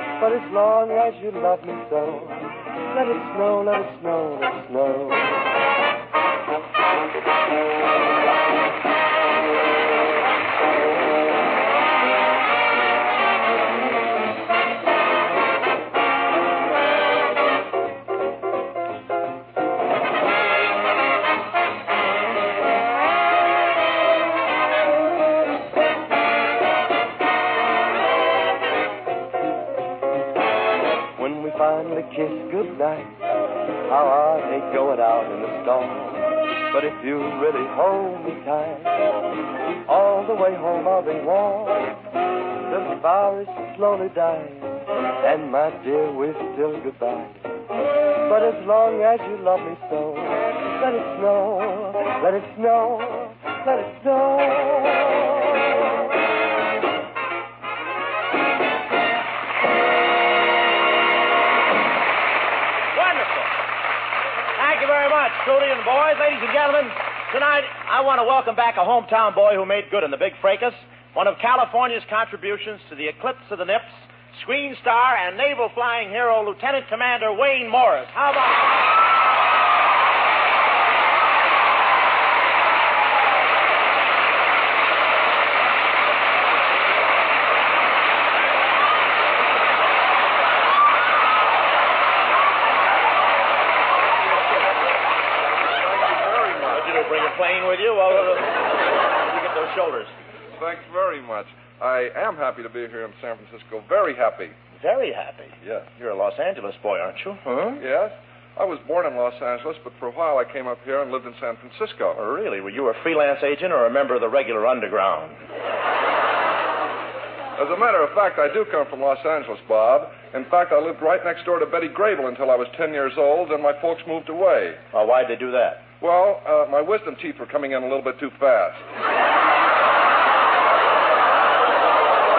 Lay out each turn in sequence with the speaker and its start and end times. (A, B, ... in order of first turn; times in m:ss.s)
0:00.2-0:05.4 A
0:31.2-0:33.2 A
0:33.9-0:39.0 A
0:39.8-0:42.0 A
0:42.7-0:47.4 A
0:48.2-0:55.6 A
1:02.9-1:03.5 B
1:04.6-1:18.8 B
1:35.8-1:36.9 C
1:36.7-1:38.6 B
1:39.1-1:40.1 B
1:40.6-1:44.5 C
1:44.8-1:47.8 B
1:47.5-1:52.2 C
1:52.2-1:55.3 B
1:57.6-2:04.8 C
2:04.9-2:05.8 B
2:06.0-2:08.8 C